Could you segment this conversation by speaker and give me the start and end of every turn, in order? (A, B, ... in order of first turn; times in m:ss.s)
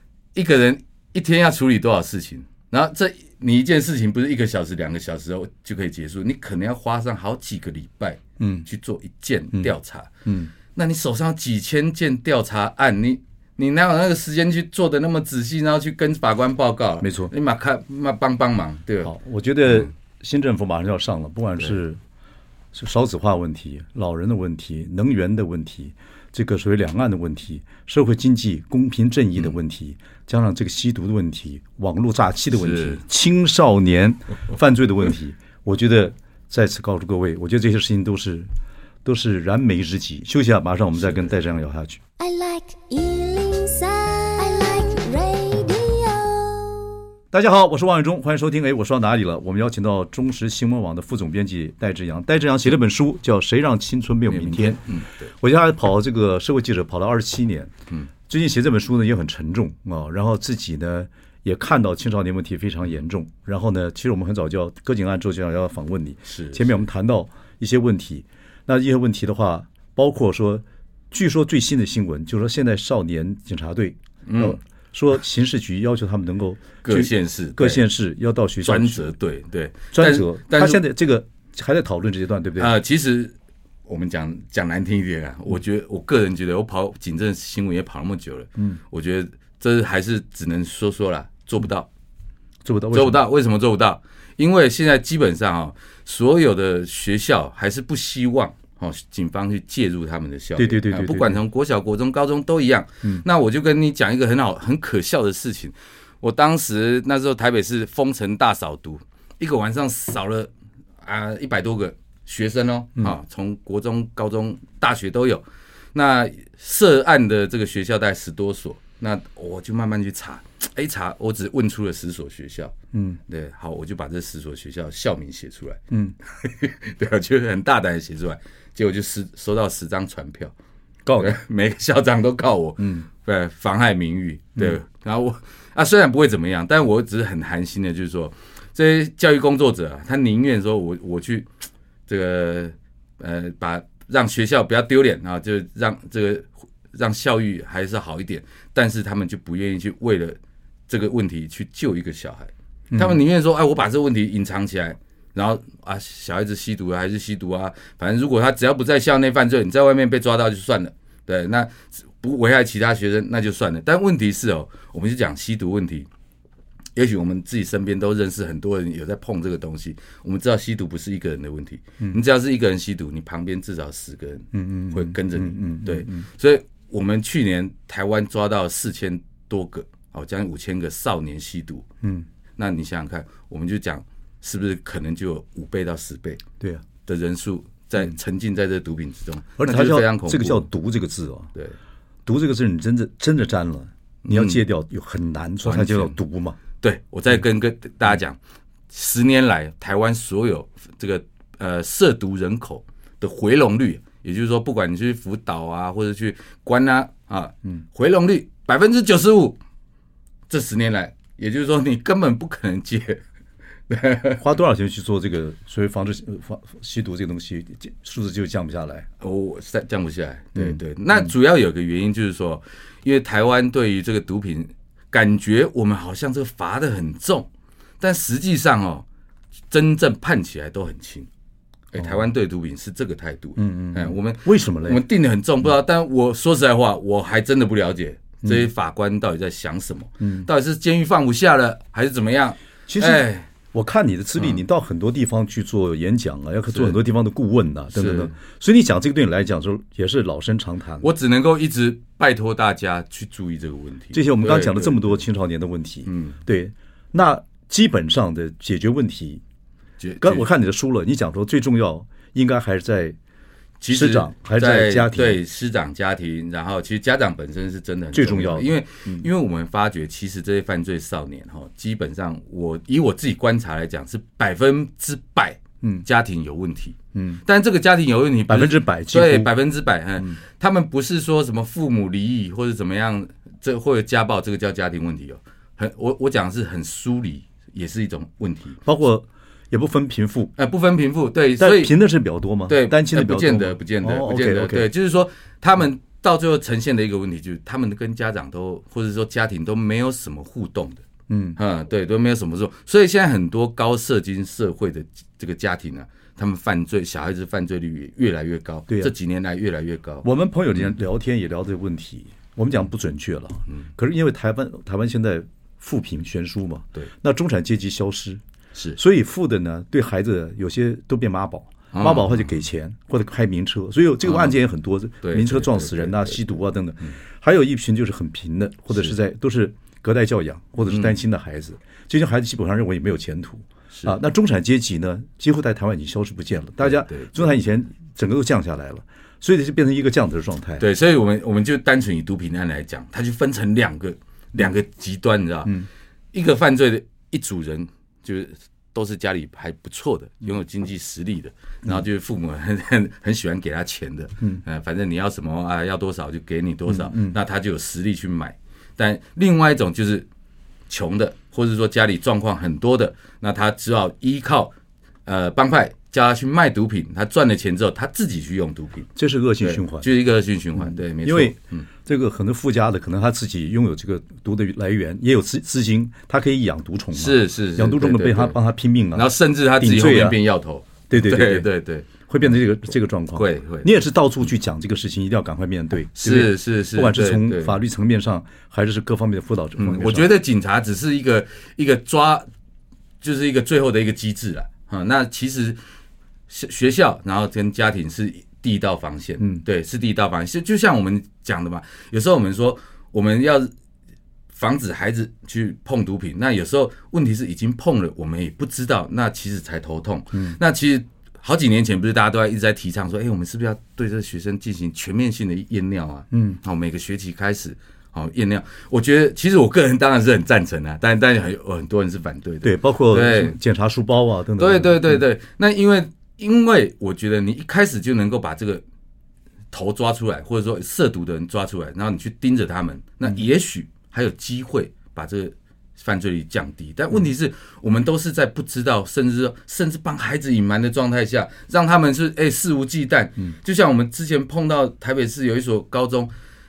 0:00.4-0:10.1 A
0:08.4-0:08.7 B
0:10.2-0:10.5 B
0:10.7-0:19.1 A
0:17.0-0:17.3 B
0:19.0-0:22.0 B
0:22.7-0:38.5 B
0:32.5-0:33.0 A
0:39.0-0:42.0 B
0:41.0-0:41.3 A
0:42.2-0:47.0 C
0:47.3-0:57.7 B
0:54.3-0:55.3 A
0:58.3-1:19.1 B
1:06.3-1:06.8 A
1:14.3-1:14.6 A
1:16.8-1:17.8 A
1:18.6-1:20.8 A
1:19.9-1:22.7 B
1:22.6-1:23.4 A
1:23.9-1:31.9 A
1:32.6-1:33.2 B
1:32.9-1:50.5 A
1:40.6-1:41.4 B
1:51.0-2:02.7 A
2:02.9-2:03.2 B
2:03.3-2:05.8 A
2:06.4-2:10.5 A
2:11.1-2:11.4 B
2:11.2-2:21.5 A
2:12.8-2:13.1 B
2:22.1-2:30.4 A
2:30.9-2:46.1 A
2:32.9-2:33.2 B
2:47.0-3:01.9 A
2:54.5-2:56.3 B
3:02.6-3:06.4 A
3:06.6-3:06.8 B
3:07.0-3:10.7 A
3:09.6-3:11.5 B
3:12.3-3:16.6 B
3:14.2-3:14.6 A
3:15.6-3:16.2 A
3:16.8-3:18.4 A
3:18.9-3:29.6 A
3:30.5-3:33.2 A
3:33.9-3:34.4 A
3:34.4-3:39.1 B
3:39.2-3:47.5 A
3:40.6-3:41.3 B
3:48.0-3:49.0 A
3:49.7-3:51.3 A
3:51.9-4:03.5 A
3:53.6-3:55.0 B
4:00.2-4:00.5 B
4:02.9-4:11.1 B
4:07.9-4:08.3 A
4:11.0-4:15.2 A
4:14.1-4:19.4 B
4:16.1-4:16.4 A
4:20.0-4:20.5 A
4:20.2-4:23.2 B
4:23.8-4:48.8 A
4:23.9-4:25.4 B
4:28.1-4:29.3 B
4:37.1-4:37.4 B
4:38.5-4:39.5 B
4:48.8-4:50.5 B
4:50.6-4:51.9 A
4:51.6-4:54.9 B
4:52.7-5:01.0 A
5:01.3-5:01.6 B
5:01.6-5:10.3 A
5:10.2-5:18.4 B
5:19.0-5:40.8 B
5:21.9-5:22.5 A
5:24.2-5:24.6 A
5:25.2-5:26.4 A
5:30.9-5:31.1 A
5:36.8-5:37.4 A
5:40.8-6:00.3 A
5:56.9-5:57.4 B
6:00.9-6:04.7 A
6:05.3-6:09.1 A
6:09.2-6:10.1 B
6:09.6-6:11.9 A
6:10.8-6:20.4 B
6:17.1-6:18.6 A
6:19.2-6:22.5 A
6:21.1-6:21.7 B
6:22.3-6:30.3 B
6:23.4-6:23.9 A
6:26.2-6:27.8 A
6:29.8-6:32.5 A
6:33.2-6:35.8 A
6:36.5-6:43.7 A
6:44.5-7:03.6 A
6:50.3-6:50.6 B
6:56.3-6:56.6 B
7:02.6-7:05.2 B
7:04.6-7:08.8 A
7:09.7-7:26.3 A